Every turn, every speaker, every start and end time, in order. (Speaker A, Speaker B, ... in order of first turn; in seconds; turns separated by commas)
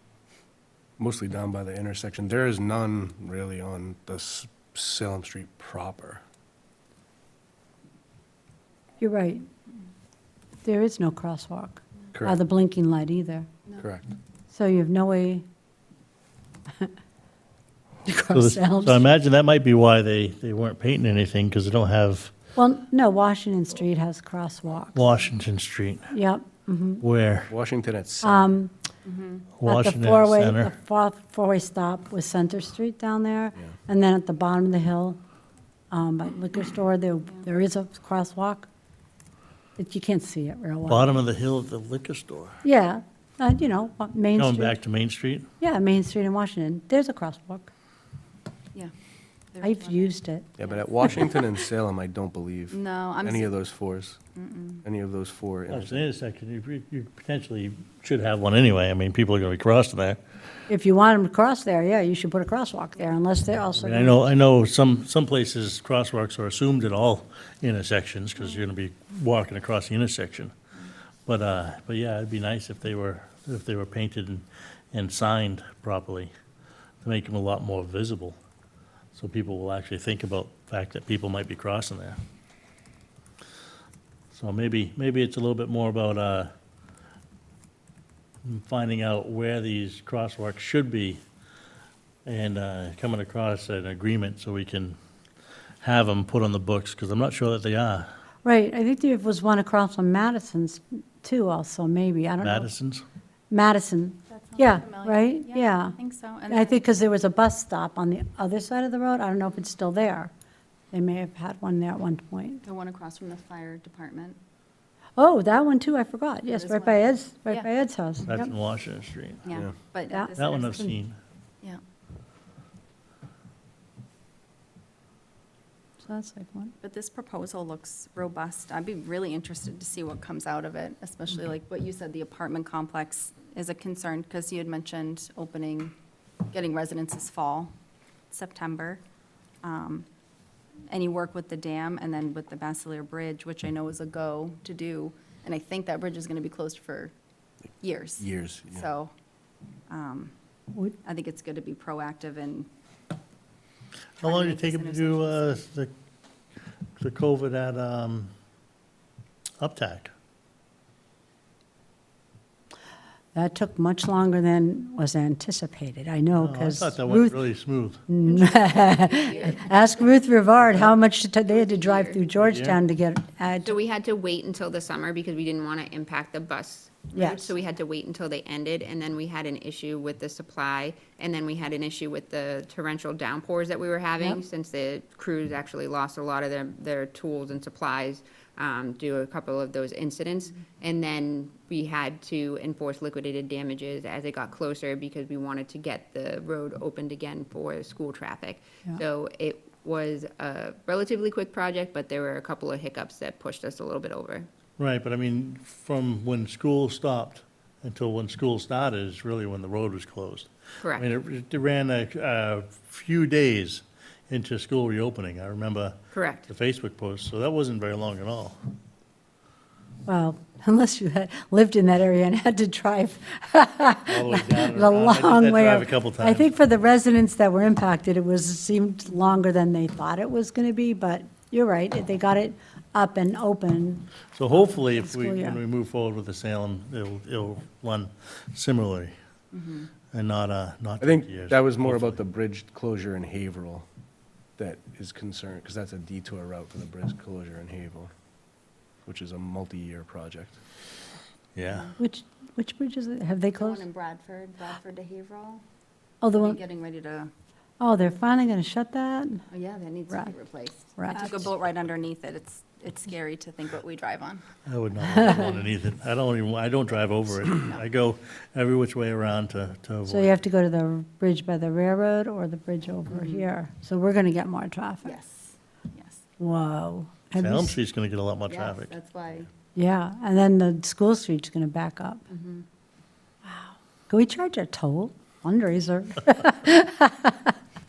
Speaker A: 1.0-6.2, Speaker B: 9.0-9.4, Speaker B: 10.6-13.5, Speaker A: 12.1-12.4, Speaker A: 13.8-14.1, Speaker B: 14.5-15.4, Speaker B: 18.1-19.1, Speaker C: 18.3-22.3, Speaker B: 22.6-25.2, Speaker C: 24.9-26.2, Speaker B: 26.1-27.0, Speaker C: 27.0-27.5, Speaker A: 27.5-28.5, Speaker B: 28.2-28.7, Speaker D: 29.1-29.4, Speaker C: 29.6-30.7, Speaker B: 29.6-35.2, Speaker B: 35.9-38.7, Speaker B: 39.8-41.2, Speaker C: 40.9-42.6, Speaker B: 42.6-44.8, Speaker C: 44.4-45.5, Speaker B: 45.6-47.7, Speaker D: 49.5-50.8, Speaker B: 49.6-50.5, Speaker A: 50.6-54.2, Speaker D: 52.7-53.5, Speaker D: 54.4-54.8, Speaker A: 54.8-56.1, Speaker C: 55.7-60.2, Speaker B: 60.7-64.3, Speaker C: 63.8-70.5, Speaker C: 71.3-76.3, Speaker C: 77.0-78.4, Speaker C: 79.1-82.2, Speaker C: 84.3-86.5, Speaker C: 88.4-91.2, Speaker C: 92.3-95.0, Speaker C: 95.8-98.1, Speaker B: 98.4-102.7, Speaker C: 102.4-103.0, Speaker B: 103.5-106.0, Speaker D: 104.3-106.8, Speaker B: 106.5-110.3, Speaker B: 110.9-112.7, Speaker D: 112.6-114.4, Speaker B: 115.2-118.5, Speaker D: 116.5-117.7, Speaker C: 118.3-119.5, Speaker D: 119.4-120.9, Speaker B: 120.1-120.9, Speaker C: 120.4-121.2, Speaker B: 126.0-126.8, Speaker D: 126.8-135.9, Speaker D: 136.5-137.7, Speaker D: 138.3-139.0, Speaker D: 139.6-140.1, Speaker D: 140.9-147.1, Speaker D: 147.8-149.1, Speaker A: 148.2-148.9, Speaker D: 149.9-150.3, Speaker D: 151.0-152.7, Speaker C: 154.2-155.9, Speaker D: 154.2-155.6, Speaker C: 157.0-158.3, Speaker C: 159.6-160.1, Speaker B: 163.3-167.5, Speaker C: 166.4-168.0, Speaker B: 168.1-173.8, Speaker D: 168.5-169.8, Speaker E: 169.1-169.6, Speaker E: 171.5-172.2, Speaker C: 172.4-172.8, Speaker E: 173.6-204.5, Speaker B: 177.1-177.5, Speaker C: 204.8-218.6, Speaker E: 210.8-211.1, Speaker E: 216.1-216.5, Speaker B: 220.1-234.1, Speaker C: 224.1-226.6, Speaker C: 234.3-239.2, Speaker B: 234.6-235.6, Speaker D: 239.5-239.9, Speaker C: 240.1-242.2, Speaker A: 241.0-243.8, Speaker A: 244.6-248.1, Speaker A: 249.1-250.6, Speaker C: 251.6-251.9, Speaker B: 252.0-253.8, Speaker D: 253.6-255.6, Speaker B: 256.2-256.6, Speaker D: 256.3-257.3, Speaker B: 257.8-259.4, Speaker D: 259.5-264.4, Speaker B: 261.0-261.4, Speaker C: 264.7-270.4, Speaker D: 267.5-267.8, Speaker B: 270.1-275.1, Speaker D: 273.1-273.4, Speaker D: 275.0-276.2, Speaker B: 276.4-277.8, Speaker C: 277.4-278.9, Speaker D: 278.5-279.5, Speaker B: 279.8-282.2, Speaker D: 282.3-282.7, Speaker B: 283.4-287.5